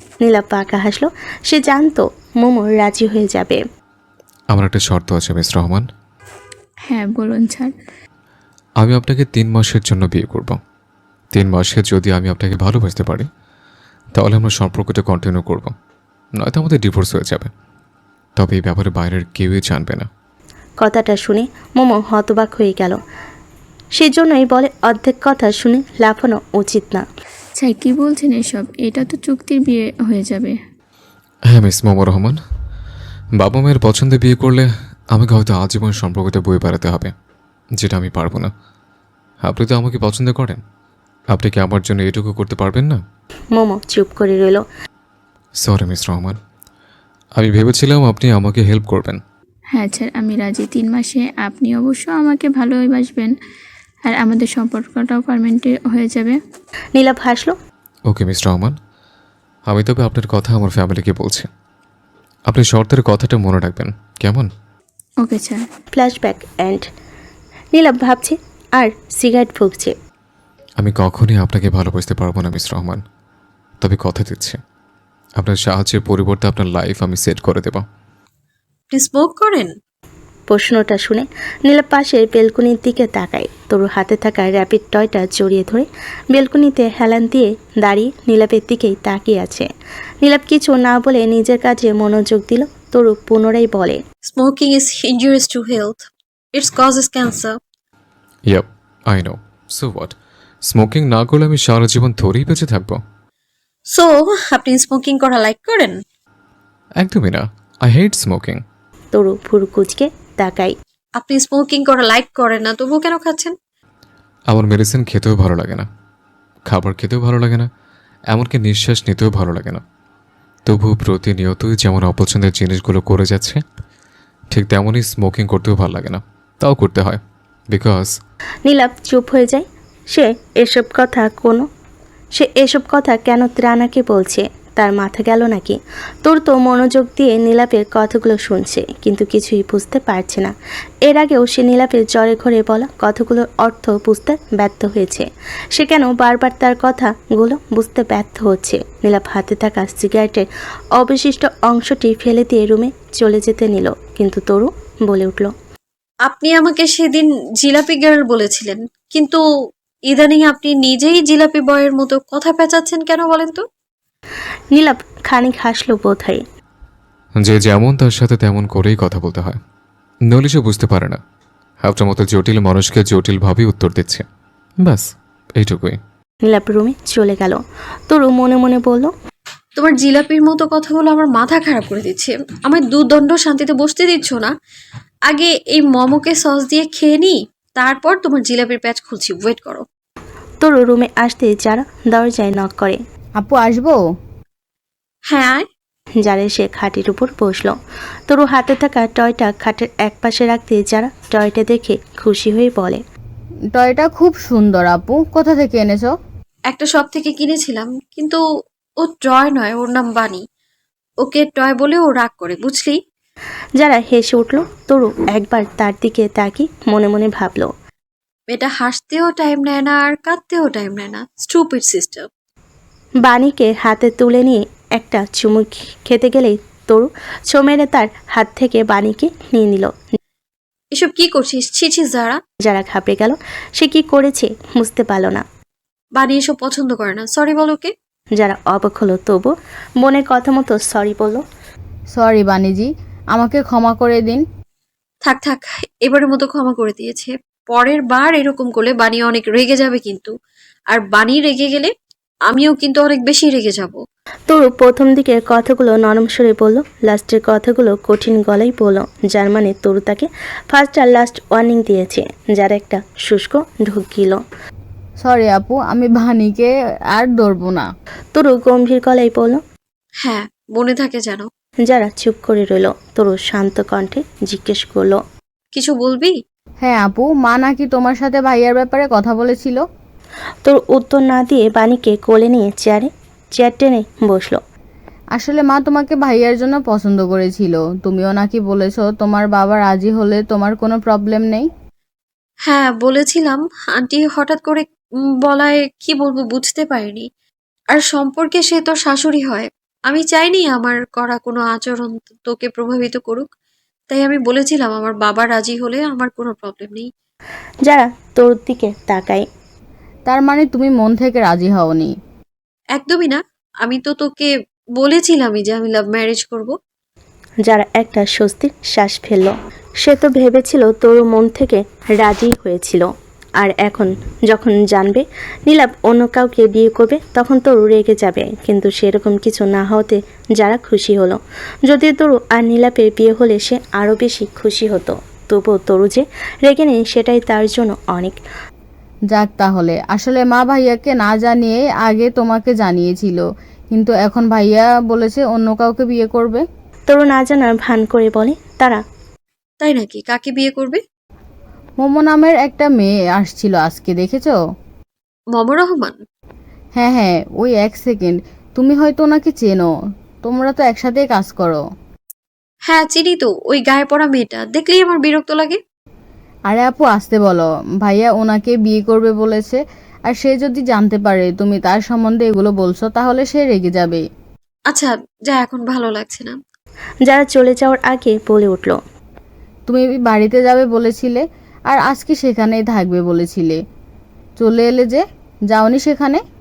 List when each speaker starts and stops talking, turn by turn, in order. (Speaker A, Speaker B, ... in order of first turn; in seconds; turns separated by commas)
Speaker A: 0.2-3.6, Speaker B: 4.5-5.9, Speaker C: 6.9-7.7, Speaker B: 8.8-10.6, Speaker B: 11.3-13.3, Speaker B: 14.1-15.7, Speaker B: 16.4-17.5, Speaker B: 18.4-20.1, Speaker A: 20.8-23.0, Speaker A: 24.0-27.1, Speaker C: 27.6-30.5, Speaker B: 31.5-32.4, Speaker B: 33.4-37.1, Speaker B: 37.8-38.5, Speaker B: 39.4-40.6, Speaker B: 41.3-43.0, Speaker A: 43.5-44.6, Speaker B: 45.6-46.4, Speaker B: 47.4-49.2, Speaker C: 49.7-53.3, Speaker C: 54.0-56.4, Speaker A: 56.9-57.5, Speaker B: 58.1-58.8, Speaker B: 59.7-61.5, Speaker B: 62.5-64.5, Speaker C: 65.2-65.6, Speaker A: 65.9-66.9, Speaker A: 67.7-69.9, Speaker B: 70.8-73.0, Speaker B: 73.8-74.6, Speaker B: 75.4-77.8, Speaker D: 78.9-79.7, Speaker A: 80.5-89.7, Speaker A: 90.2-94.0, Speaker D: 94.3-97.6, Speaker B: 98.5-103.0, Speaker D: 103.9-106.0, Speaker B: 107.0-108.6, Speaker A: 109.1-110.7, Speaker D: 111.2-113.5, Speaker B: 114.5-115.9, Speaker B: 116.7-117.7, Speaker B: 118.3-119.8, Speaker B: 120.7-123.6, Speaker B: 124.5-127.2, Speaker B: 127.7-128.2, Speaker A: 128.7-131.7, Speaker A: 132.3-140.5, Speaker A: 141.0-155.5, Speaker D: 156.2-159.4, Speaker D: 160.1-163.6, Speaker A: 164.7-166.4, Speaker B: 167.4-169.6, Speaker B: 170.3-171.2, Speaker B: 171.8-174.2, Speaker B: 175.6-176.0, Speaker A: 176.4-179.1, Speaker D: 179.8-184.5, Speaker D: 185.3-189.8, Speaker A: 190.6-193.0, Speaker E: 193.4-194.0, Speaker D: 195.3-195.7, Speaker A: 196.2-197.8, Speaker A: 198.3-203.0, Speaker E: 203.7-206.1, Speaker D: 206.7-208.4, Speaker D: 209.0-210.4, Speaker D: 211.2-213.0, Speaker A: 213.8-217.7, Speaker D: 218.5-222.3, Speaker A: 223.2-229.9, Speaker D: 230.9-232.4, Speaker A: 232.6-235.4, Speaker D: 236.2-237.9, Speaker A: 238.4-241.4, Speaker E: 242.2-244.4, Speaker D: 245.2-250.3, Speaker D: 250.9-251.9, Speaker D: 252.5-254.0, Speaker A: 254.5-264.4, Speaker E: 265.2-267.9, Speaker A: 268.3-269.6, Speaker D: 270.2-271.5, Speaker A: 271.9-275.2, Speaker D: 275.7-276.4, Speaker E: 276.8-279.8, Speaker A: 280.6-284.6, Speaker E: 285.4-291.7, Speaker D: 292.6-294.9, Speaker D: 295.4-297.3, Speaker D: 297.9-303.5, Speaker D: 304.1-307.1, Speaker A: 307.9-309.5, Speaker E: 310.3-312.1, Speaker D: 312.9-316.8, Speaker A: 317.6-338.4, Speaker E: 339.3-346.6, Speaker A: 347.1-349.0, Speaker D: 349.8-351.0, Speaker E: 352.0-354.6, Speaker D: 355.5-356.2, Speaker E: 356.9-359.9, Speaker E: 360.4-361.8, Speaker D: 362.9-365.8, Speaker E: 366.7-374.2, Speaker D: 374.9-376.6, Speaker A: 377.2-379.0, Speaker E: 379.9-383.8, Speaker E: 384.6-386.4